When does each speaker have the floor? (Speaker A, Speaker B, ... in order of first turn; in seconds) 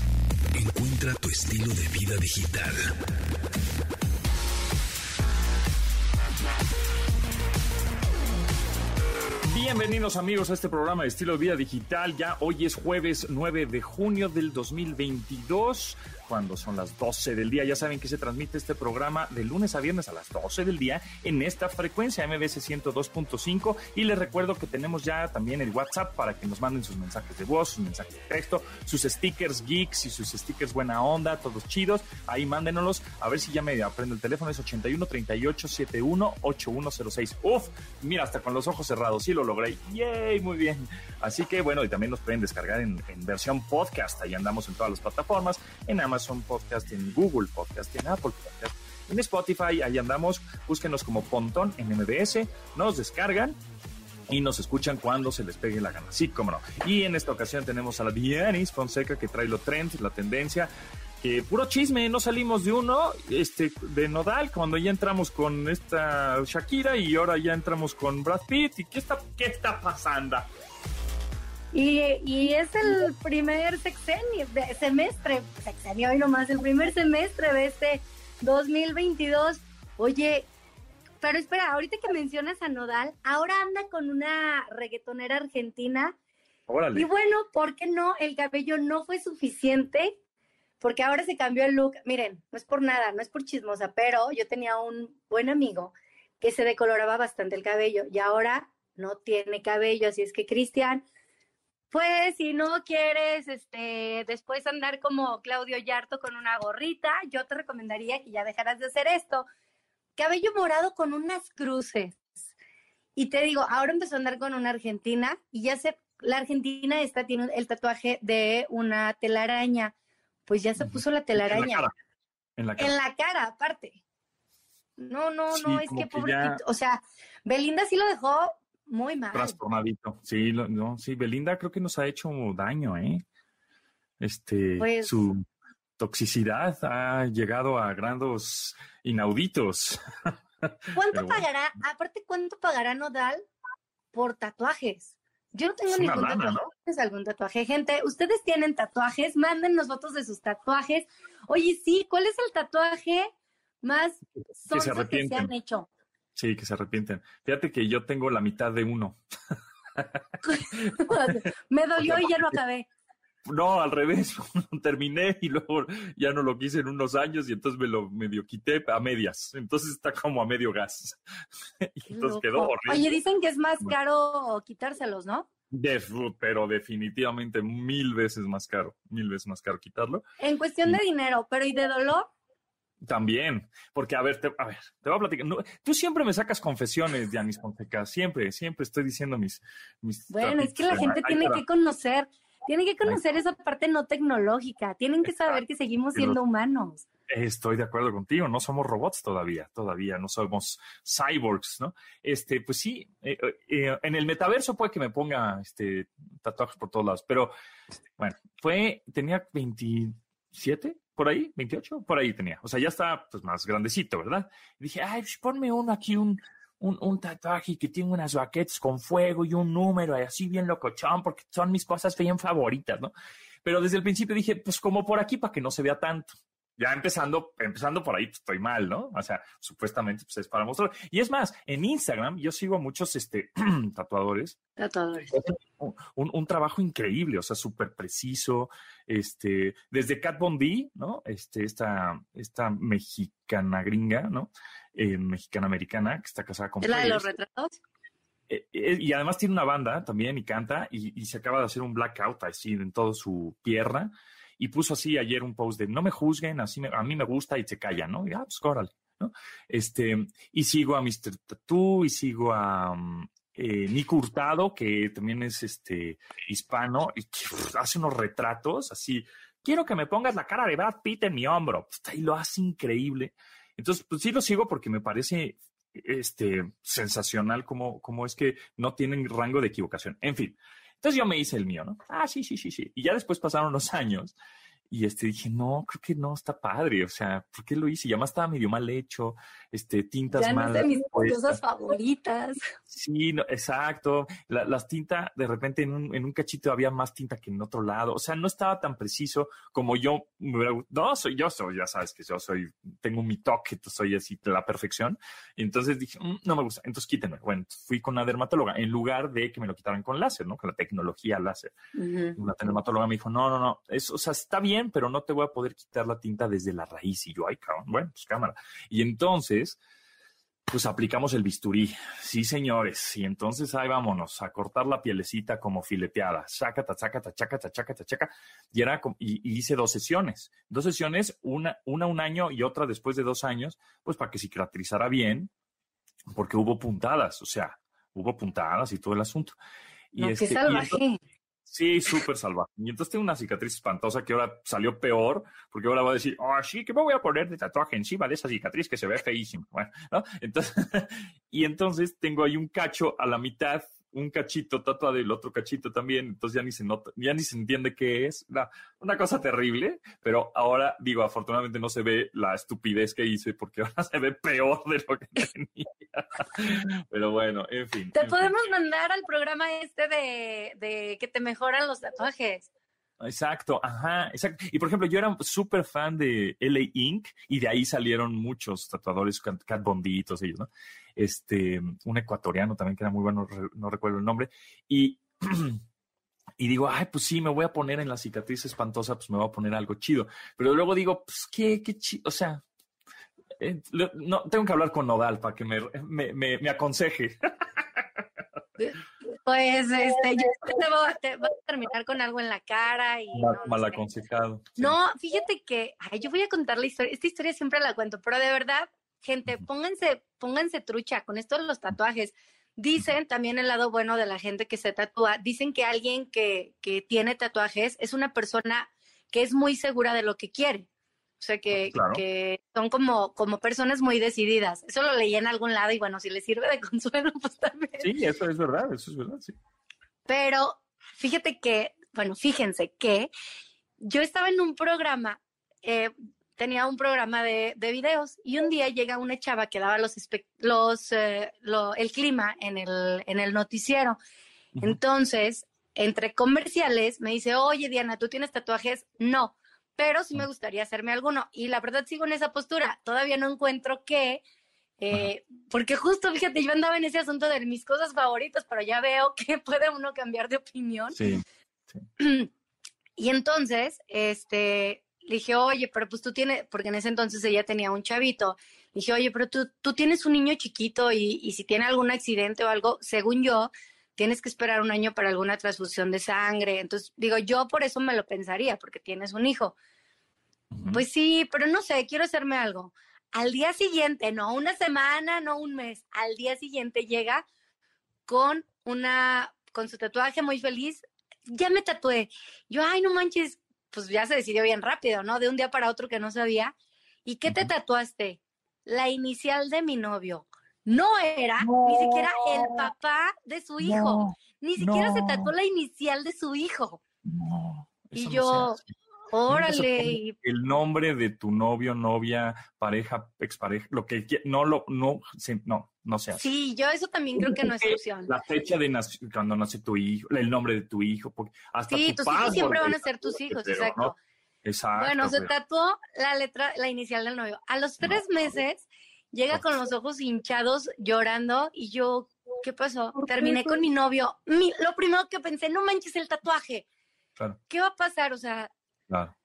Speaker A: 0.5-2.9
Speaker B: 9.4-53.6, 54.3-60.7, 61.2-70.5, 86.7-87.1, 120.8-121.9, 122.6-122.9, 125.5-126.6, 129.3-133.2, 134.2-135.4, 136.0-141.4, 145.9-146.7, 154.7-155.5, 156.3-159.2, 160.7-161.2, 162.0-162.6, 163.4-171.2, 171.8-173.2, 175.7-180.2, 183.0-191.6, 195.2-195.6, 197.3-207.5, 208.2-223.1, 223.6-234.6, 235.3-247.2, 248.5-284.3, 284.9-291.6, 292.9-311.8, 312.4-319.8, 320.7-335.5, 336.3-339.6, 340.1-341.0, 341.7-368.5, 373.2-385.8, 386.6-392.6, 393.6-397.5, 403.3-404.9, 421.8-422.2, 428.0-429.5, 461.1-461.4, 480.7-481.0, 501.6-502.9, 503.8-505.5, 507.2-508.8, 509.5-516.4, 517.4-524.1, 524.6-525.5, 539.1-539.3
Speaker C: 71.7-80.5, 81.2-86.1, 86.9-90.2, 90.8-101.0, 101.9-109.5, 110.2-112.2, 113.2-119.9, 120.5-121.9, 122.8-124.0, 125.0-129.6, 134.8-135.1, 140.9-143.4, 144.1-153.3, 153.8-155.9, 160.4-162.9, 172.1-175.5, 180.4-182.3, 190.3-197.0, 234.8-235.3, 246.8-247.8, 290.3-292.6, 311.9-312.4, 340.2-341.2, 368.1-372.7, 398.8-404.0, 404.8-420.9, 421.4-428.1, 430.3-433.3, 434.0-444.2, 444.8-454.4, 455.0-461.2, 462.2-462.5, 463.2-479.8, 480.9-487.4, 488.2-496.7, 497.2-507.0, 508.2-508.8, 509.3-510.4, 516.3-518.3, 521.9-524.1, 525.0-536.8, 537.7-538.7